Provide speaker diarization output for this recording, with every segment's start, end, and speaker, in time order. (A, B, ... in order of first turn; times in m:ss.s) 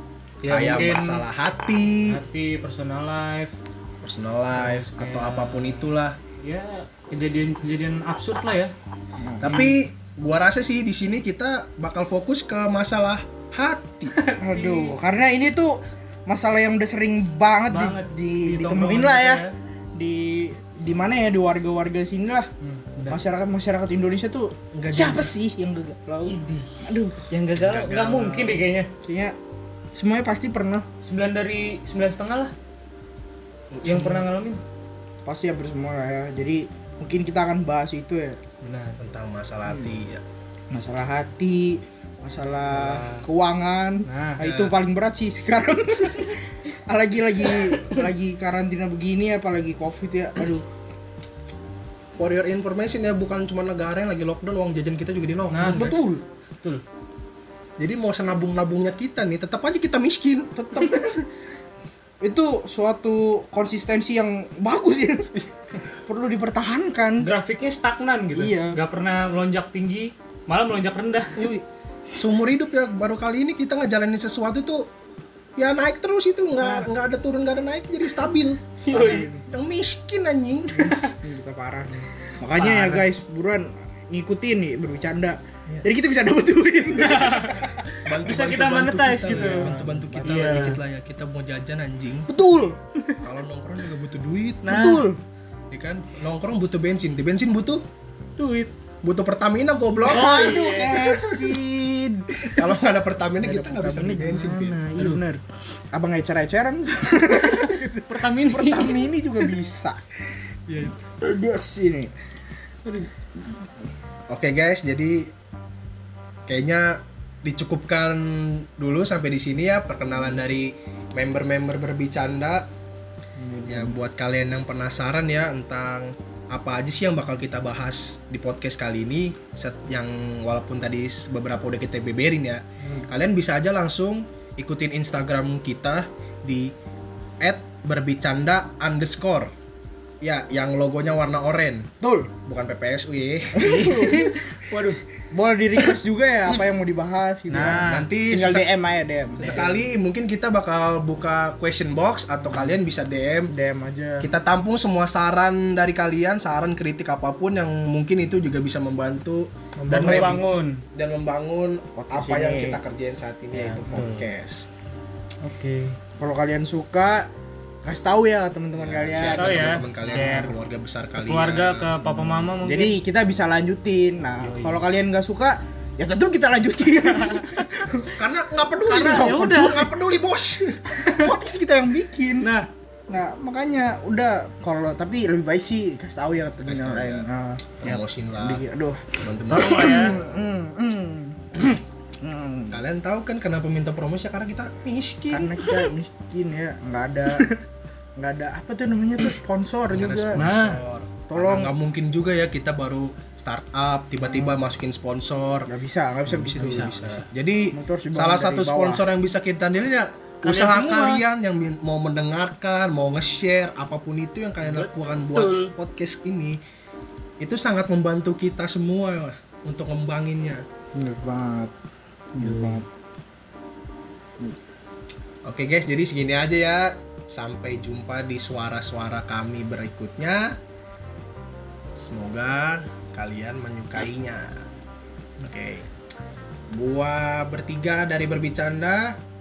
0:00.4-0:01.2 A
0:00.4-0:02.2 B
0:02.1-0:03.5 A
0:04.0-0:06.2 B
0:04.5-0:08.7 A
0:09.2-0:09.5 C
0:09.4-0:14.1 B
0:09.4-0:09.8 A
0:14.1-0:15.0 A
0:14.4-0:19.4 C
0:17.7-0:19.5 A
0:19.9-0:22.5 C
0:22.6-0:23.2 A
0:23.1-0:27.2 C
0:24.7-0:25.3 B
0:26.2-0:26.8 A
0:27.3-0:28.9 A
0:27.6-0:28.6 B
0:29.0-0:29.3 C
0:29.9-0:30.8 C
0:31.0-0:32.5 A
0:33.7-0:34.2 B
0:33.8-0:34.6 A
0:35.2-0:38.4 C
0:38.6-0:39.0 A
0:39.0-0:40.2 B
0:40.7-0:50.6 C
0:42.6-0:43.2 A
0:44.0-0:44.4 A
0:44.4-0:44.8 B
0:52.2-0:56.0 B
0:55.5-0:56.0 A
0:55.8-0:56.2 C
0:57.8-1:01.2 B
1:02.2-1:05.3 C
1:06.1-1:07.3 C
1:07.2-1:11.4 A
1:08.4-1:08.8 C
1:11.3-1:14.9 B
1:15.6-1:21.1 B
1:16.6-1:16.9 C
1:18.8-1:19.3 A
1:18.9-1:19.4 C
1:20.8-1:27.5 C
1:22.5-1:23.0 A
1:27.0-1:29.7 A
1:28.0-1:32.3 B
1:29.3-1:30.4 C
1:30.2-1:30.8 A
1:32.3-1:32.8 C
1:33.2-1:35.0 B
1:34.6-1:35.1 A
1:34.9-1:35.2 C
1:35.7-1:37.8 B
1:38.4-1:38.7 A
1:39.0-1:41.5 B
1:40.0-1:41.0 A
1:40.2-1:42.5 C
1:42.5-1:44.8 B
1:43.4-1:45.4 C
1:45.0-1:45.2 A
1:45.9-1:50.0 C
1:47.3-1:49.0 A
1:50.8-1:52.1 C
1:54.3-1:55.3 B
1:56.5-2:02.7 B
2:03.4-2:04.0 C
2:03.7-2:16.7 B
2:17.4-2:19.5 B
2:20.2-2:21.9 B
2:22.0-2:22.3 C
2:22.4-2:23.7 B
2:23.6-2:24.2 C
2:23.6-2:25.0 A
2:25.3-2:29.7 C
2:27.5-2:28.1 A
2:27.6-2:28.7 B
2:29.4-2:33.5 B
2:29.4-2:29.7 A
2:33.5-2:34.3 C
2:34.2-2:40.4 B
2:39.8-2:40.4 C
2:39.9-2:40.8 A
2:40.9-2:44.6 B
2:42.0-2:42.8 C
2:43.5-2:44.3 A
2:45.4-2:46.0 A
2:46.2-2:47.3 C
2:47.8-2:50.5 C
2:48.7-2:52.0 B
2:49.2-2:50.6 A
2:51.2-2:52.9 A
2:52.6-2:58.1 C
2:54.4-2:54.8 A
2:57.0-2:57.8 A
2:58.1-3:01.0 B
2:58.9-2:59.9 A
2:58.9-2:59.3 C
3:00.9-3:01.3 A
3:01.2-3:02.5 C
3:02.4-3:02.7 A
3:03.1-3:07.7 C
3:06.6-3:07.2 B
3:07.8-3:08.6 B
3:08.4-3:11.4 C
3:09.2-3:10.3 B
3:12.2-3:12.8 C
3:12.7-3:15.5 B
3:15.3-3:17.4 C
3:18.2-3:20.4 C
3:19.9-3:25.7 B
3:20.4-3:20.8 A
3:21.3-3:21.7 C
3:24.3-3:24.5 C
3:25.7-3:26.9 C
3:26.3-3:36.6 B
3:26.6-3:27.2 A
3:27.7-3:29.0 C
3:30.4-3:31.2 A
3:34.6-3:35.7 A
3:37.4-3:40.6 B
3:40.9-3:41.7 C
3:42.3-3:42.8 C
3:42.4-3:42.8 A
3:45.4-3:50.5 B
3:52.0-3:54.5 B
3:55.4-3:55.8 B
3:56.7-3:59.2 B